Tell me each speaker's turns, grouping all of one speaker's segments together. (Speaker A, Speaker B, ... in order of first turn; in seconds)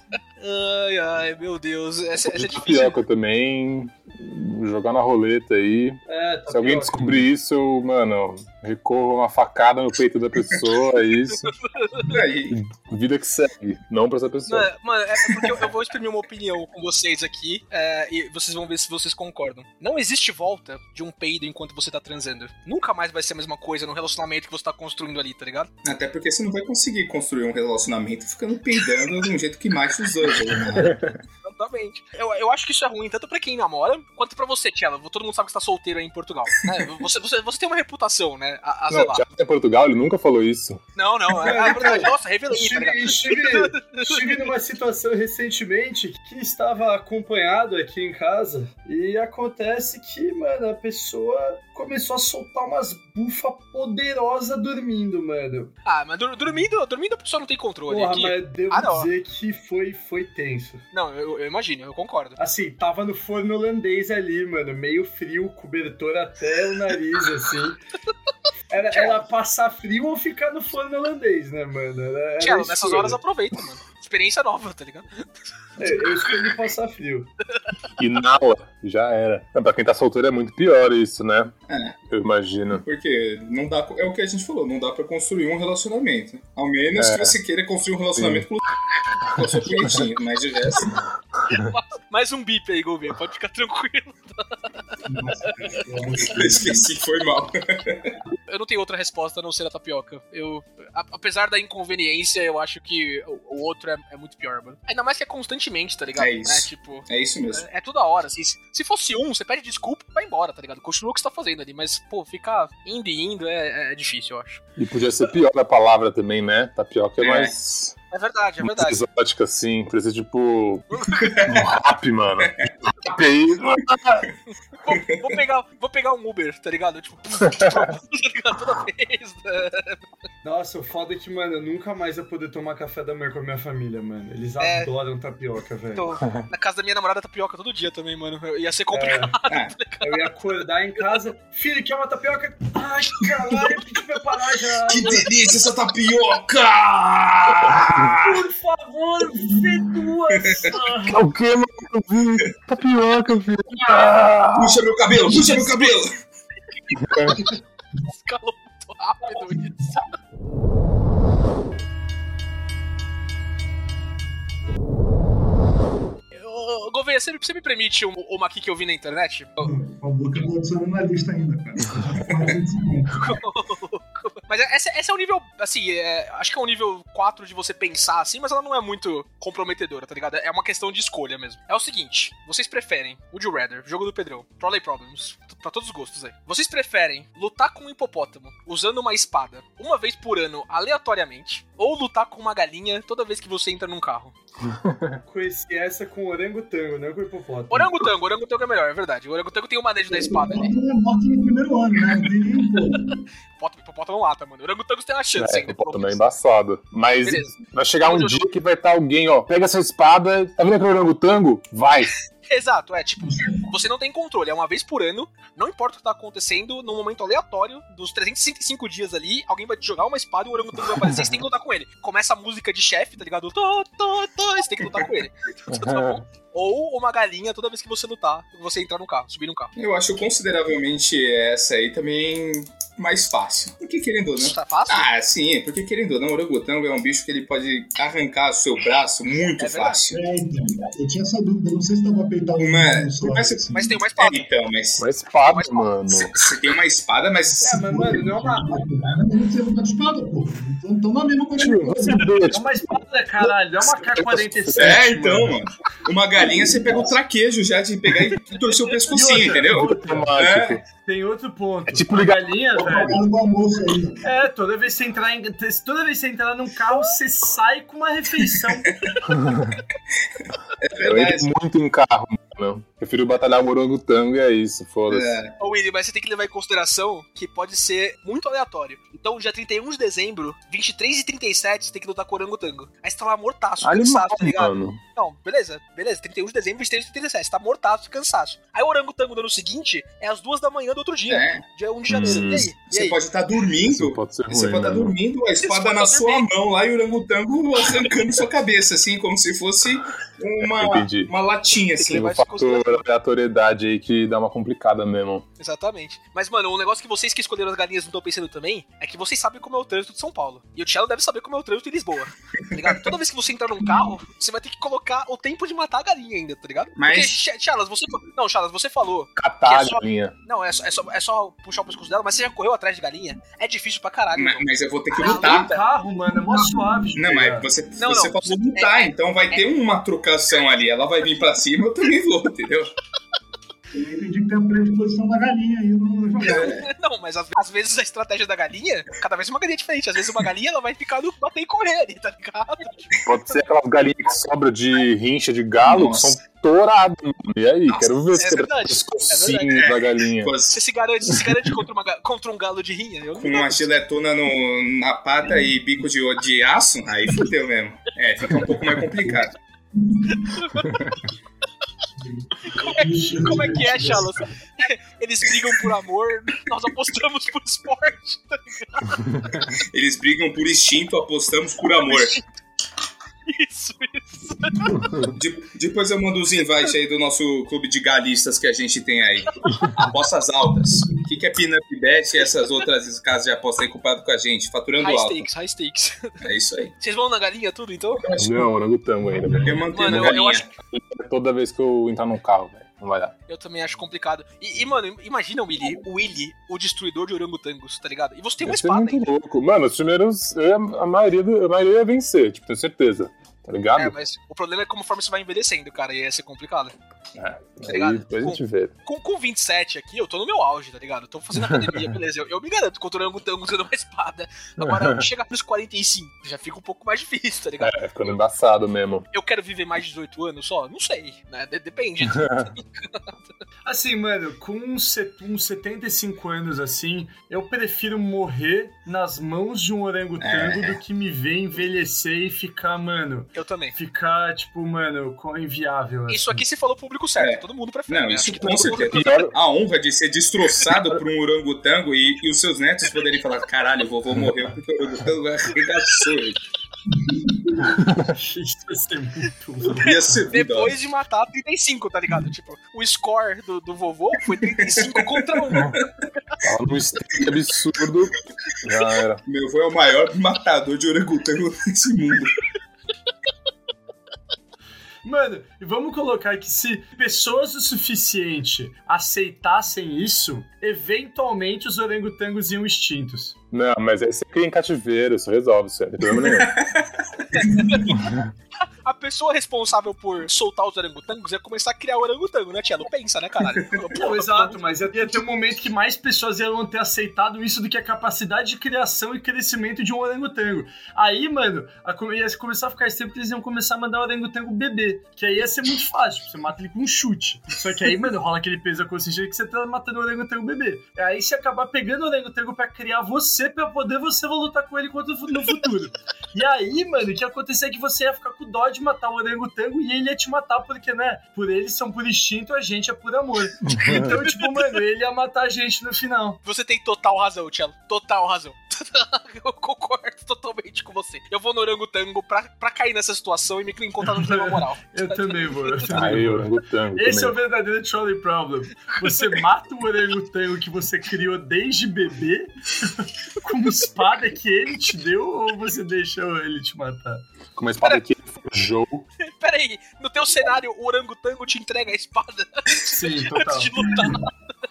Speaker A: 0.4-3.0, 11.6-12.1, 14.5-25.7, 31.4-39.2, 41.0-44.5, 55.8-59.1, 60.9-62.4, 68.8-69.2, 72.4-75.3, 75.9-76.3, 91.5-94.7, 98.5-114.6, 118.1-119.0, 121.0-121.3, 124.7-130.1, 134.6-134.9, 135.9-140.3, 155.3-156.0, 158.0-160.1, 166.3-169.7, 173.1-194.3, 197.7-200.7, 203.1-206.2, 207.2-208.5, 212.4-229.7, 234.4-235.1, 239.6-240.1, 243.7-244.4, 245.4-245.9, 275.6-293.2, 295.6-296.5, 301.9-303.0, 305.6-325.8, 328.0-329.6, 336.4-343.2, 348.3-349.8, 350.7-353.9, 360.3-360.9, 362.7-369.2, 372.0-372.4, 373.4-375.1, 385.0-386.4, 387.0-388.2, 389.9-390.7, 393.5-399.3, 403.9-406.9, 407.8-418.0, 419.3-423.4, 433.5-433.9, 436.3-439.4, 450.3-456.0, 477.5-478.2, 479.0-484.8, 516.6-526.1, 539.4-544.5
Speaker B: 2.2-11.6, 12.1-14.7, 30.7-31.2, 38.9-40.8, 78.0-81.5, 82.1-82.8, 87.0-87.3, 88.2-88.5, 89.4-89.6, 114.8-118.0, 118.6-124.3, 127.4-127.9, 147.7-148.1, 151.1-154.8, 157.0-157.5, 194.7-195.2, 205.4-212.2, 225.7-226.2, 245.0-246.3, 251.6-252.9, 253.4-255.0, 259.7-260.8, 261.9-262.5, 269.3-269.8, 271.0-275.4, 283.8-285.0, 292.1-292.7, 293.9-295.1, 300.6-301.3, 302.1-305.4, 319.4-320.3, 343.2-350.5, 375.0-375.3, 388.4-393.3, 398.6-404.1, 407.4-408.9, 411.6-412.1, 414.8-415.2, 417.8-419.2, 422.3-422.7, 438.7-439.5, 447.9-448.4, 456.6-459.4, 473.7-476.8, 478.1-478.5, 513.9-514.3, 526.1-527.5, 537.7-539.2
Speaker C: 6.1-7.2, 41.3-55.7, 57.9-60.8, 62.4-67.8, 68.7-73.2, 75.8-77.3, 130.4-136.1, 138.9-139.4, 140.0-145.6, 148.1-151.2, 195.2-197.9, 247.6-248.8, 252.5-255.6, 259.1-263.2, 264.2-269.1, 325.2-327.7, 423.8-436.5, 448.3-450.2, 465.2-473.6, 484.1-516.6, 524.2-537.4, 543.0-544.4
Speaker D: 12.0-12.6, 25.8-31.0, 81.7-82.0, 82.8-88.7, 89.2-90.9, 96.2-98.1, 106.2-107.6, 117.2-117.5, 121.2-121.7, 144.8-148.4, 150.3-150.8, 154.5-156.1, 229.8-240.2, 242.6-245.0, 246.1-247.8, 254.8-260.8, 268.6-269.1, 270.8-271.5, 275.1-275.5, 291.3-291.6, 292.2-302.2, 317.0-317.4, 324.4-325.7, 327.1-332.9, 336.5-336.8, 345.8-346.4, 347.9-348.1, 349.7-350.8, 353.4-359.5, 369.6-372.4, 375.3-385.5, 386.4-386.9, 388.2-388.7, 389.6-390.7, 430.4-431.0, 437.4-446.6, 449.9-450.9, 454.8-455.9, 459.4-462.6, 476.3-477.1, 483.7-484.1
Speaker E: 95.0-96.9, 169.6-173.4, 200.1-203.2, 240.1-243.9, 247.6-252.4, 256.4-257.2, 262.7-264.3, 326.3-327.1, 333.9-336.8, 359.9-360.6, 362.2-364.4, 389.2-389.8, 447.1-447.9